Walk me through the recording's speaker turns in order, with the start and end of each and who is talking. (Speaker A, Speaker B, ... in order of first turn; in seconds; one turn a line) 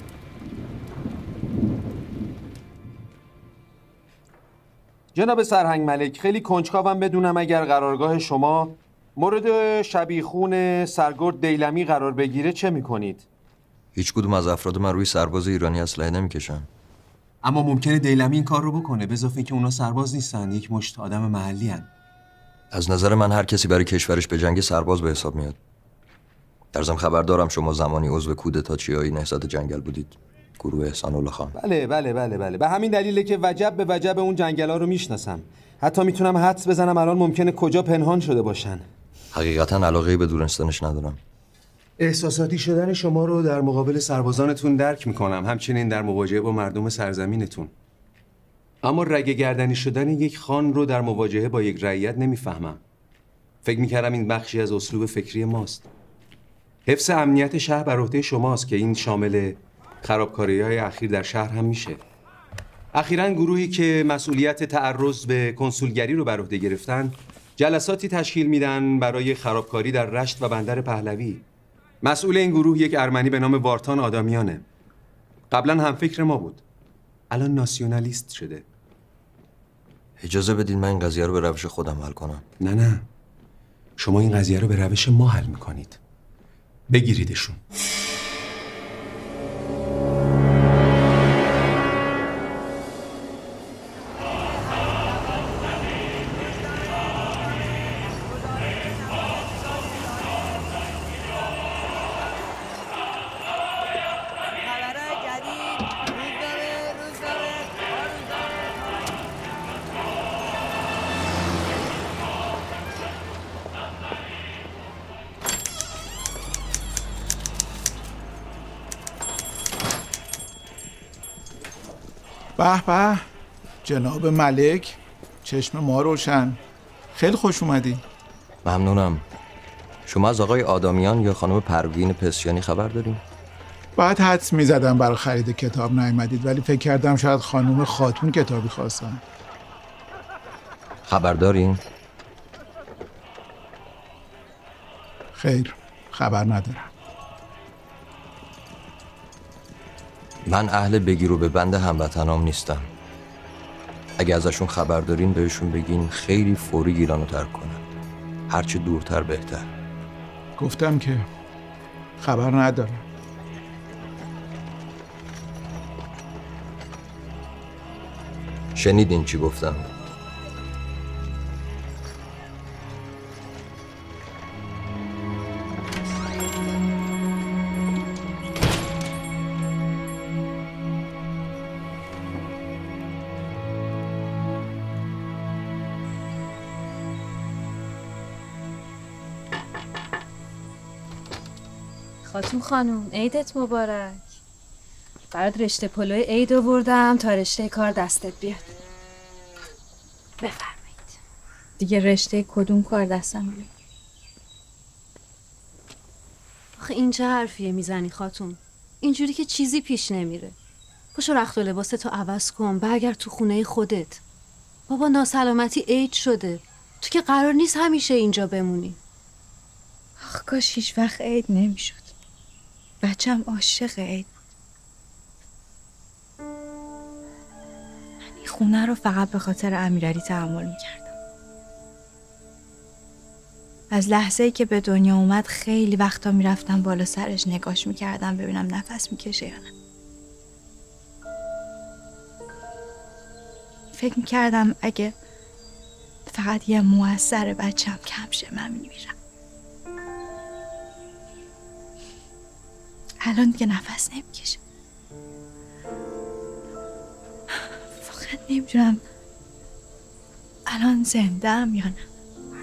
Speaker A: 5.1-13.2
Speaker B: 13.9-16.7
Speaker A: 17.4-21.9
Speaker B: 22.7-25.6
Speaker B: 26.7-31.5
Speaker A: 31.5-38.9
Speaker B: 39.3-41.2
Speaker A: 42.0-47.7
Speaker A: 48.8-52.8
Speaker A: 53.6-55.9
Speaker A: 56.9-62.0
Speaker A: 62.9-71.4
Speaker A: 72.0-74.6
Speaker A: 75.5-76.6
Speaker A: 77.3-78.6
Speaker B: 80.2-82.4
Speaker A: 82.6-83.0
Speaker A: 84.0-86.0
Speaker A: 86.9-87.6
Speaker C: 122.6-123.2
Speaker C: 123.8-126.6
Speaker C: 127.1-128.0
Speaker B: 128.6-129.2
Speaker B: 130.1-133.2
Speaker C: 133.9-139.2
Speaker B: 141.1-141.8
Speaker C: 145.3-146.9
Speaker B: 150.4-152.9
Speaker B: 154.2-157.8
Speaker B: 158.5-159.7
Speaker C: 160.6-161.3
Speaker C: 162.2-163.0
Speaker B: 168.8-169.9
Speaker D: 192.2-194.4
Speaker D: 195.3-198.8
Speaker D: 200.4-201.1
Speaker E: 201.8-203.7
Speaker D: 206.8-210.6
Speaker D: 211.1-214.2
Speaker D: 214.9-219.0
Speaker E: 220.2-222.1
Speaker E: 223.0-224.3
Speaker E: 228.3-231.1
Speaker E: 233.9-239.7
Speaker E: 243.9-245.1
Speaker E: 246.3-249.1
Speaker E: 253.2-254.6
Speaker E: 258.0-259.0
Speaker E: 260.6-262.0